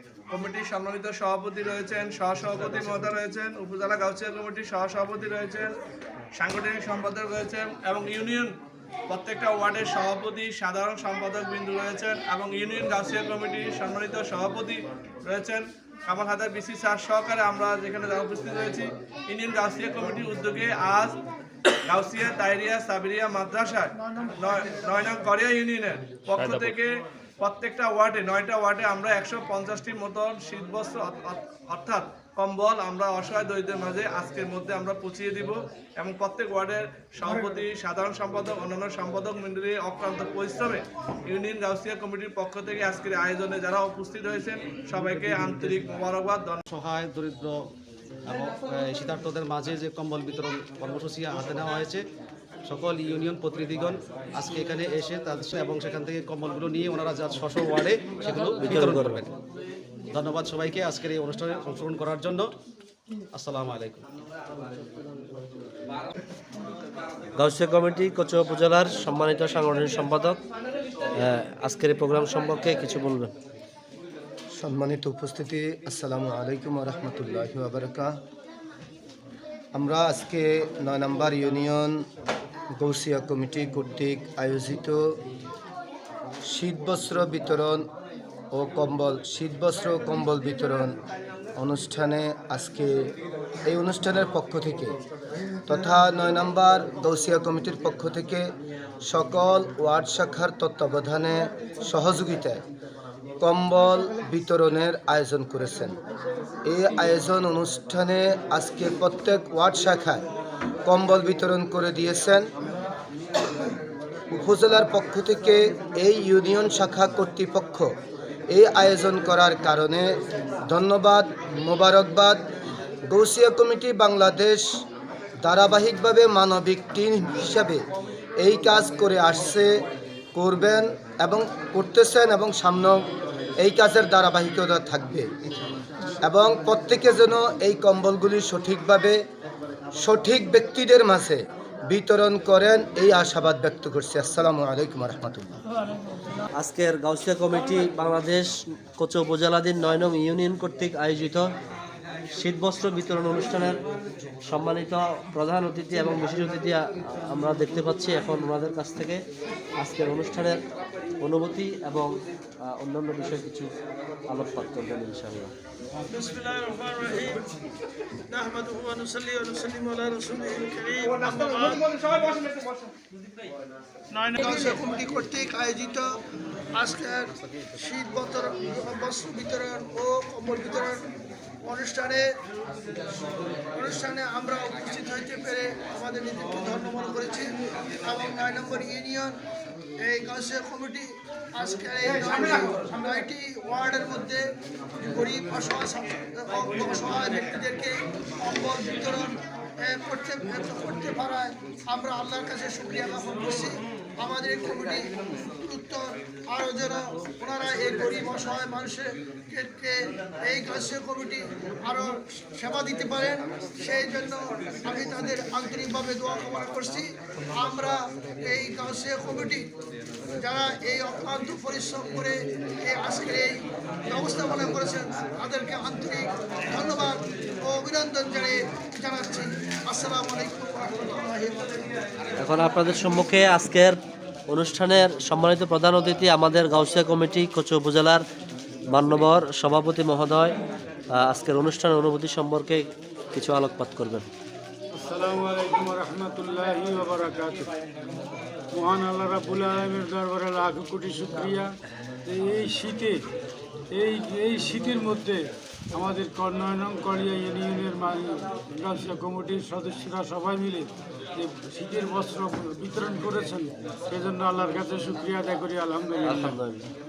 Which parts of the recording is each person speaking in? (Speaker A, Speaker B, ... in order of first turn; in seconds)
Speaker A: 0.3-5.7, 6.4-8.5, 9.1-21.1, 21.9-46.6, 171.0-172.9, 192.2-192.9
Speaker B: 46.7-47.6, 48.3-52.0, 52.7-59.3, 60.1-62.5, 63.3-64.0
Speaker C: 58.4-59.2, 67.3-70.4, 71.2-73.3, 146.6-151.5, 152.4-153.8, 154.5-159.2, 159.8-160.6, 161.2-162.1, 162.6-163.7, 164.3-165.5, 232.4-234.0, 234.5-238.2, 238.9-240.5, 241.1-244.2, 266.2-266.9
Speaker D: 74.6-78.1, 79.7-82.0, 82.8-85.0, 86.5-87.8, 88.5-91.0, 91.6-93.1, 93.7-94.9, 95.7-98.5, 99.0-102.6, 103.4-106.0, 106.7-110.2, 110.8-112.5, 114.3-117.9, 118.5-120.2, 120.7-122.4, 123.1-124.7, 125.4-127.8, 128.4-129.7, 130.3-133.0, 133.6-135.3, 136.2-139.2, 140.0-145.6
Speaker E: 166.1-167.4, 168.3-171.9, 174.2-176.0, 176.7-181.0, 181.6-182.2, 183.7-187.5, 188.0-189.3, 190.0-194.4, 195.0-205.1, 205.6-219.7, 220.4-231.9
Speaker F: 244.9-247.7, 248.7-251.7, 252.3-253.2, 253.9-255.4, 255.9-266.6